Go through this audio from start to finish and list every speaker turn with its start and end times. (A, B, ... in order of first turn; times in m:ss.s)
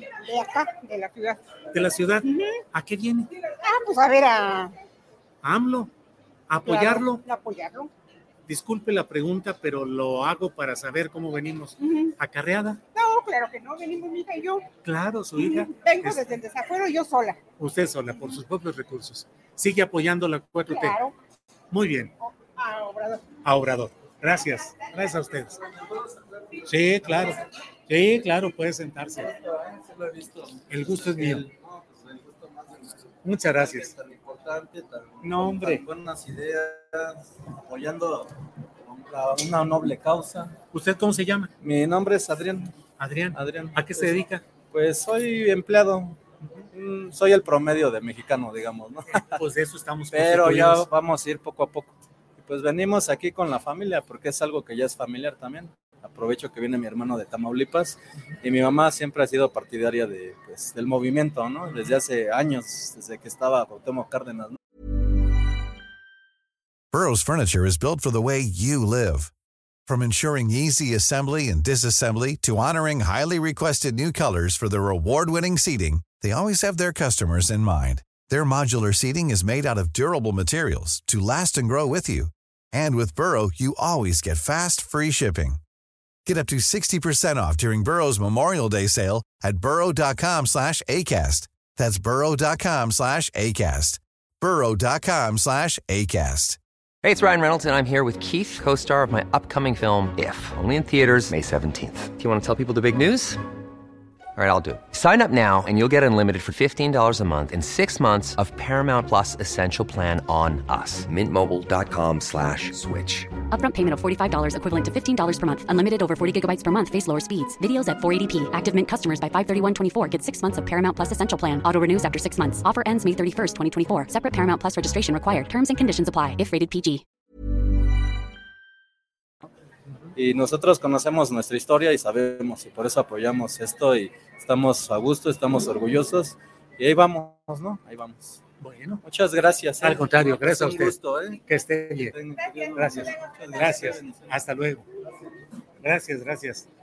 0:00.3-0:01.4 A
0:01.7-0:03.3 B
0:03.6-0:04.7 A
0:05.4-0:05.9 B
0:06.5-0:07.2 B
0:06.7-0:07.9 A
0:08.5-0:12.8 B
0:13.0-0:14.7 A
0:14.8-0:16.2 B
0:15.4-0:17.4 A
0:17.6-0:21.0 B
0:20.7-0:21.1 A
0:21.7-0:22.1 B
0:22.6-0:23.2 A
0:23.4-0:25.6 B
0:26.6-0:29.3 B
0:29.4-0:38.3 C
0:30.7-0:31.4 B
0:33.2-0:33.9 B
0:35.2-0:35.8 B
0:38.8-0:40.6 C
0:40.7-0:41.5 B
0:41.6-0:42.7 C
0:43.0-0:44.4 B
0:43.4-0:46.2 C
0:46.7-0:49.4 C
0:49.4-0:50.9 B
0:50.1-1:04.6 C
1:06.9-1:09.3 D
1:09.9-1:25.6 D
1:26.3-1:36.6 D
1:37.0-1:43.4 E
1:44.4-1:53.3 E
1:53.5-2:07.0 F
2:10.2-2:18.4 C
2:18.6-2:19.0 B
2:19.0-2:21.4 C
2:19.8-2:21.0 B
2:21.5-2:22.2 B
2:22.0-2:24.3 C
2:22.7-2:24.8 B
2:25.8-2:26.7 B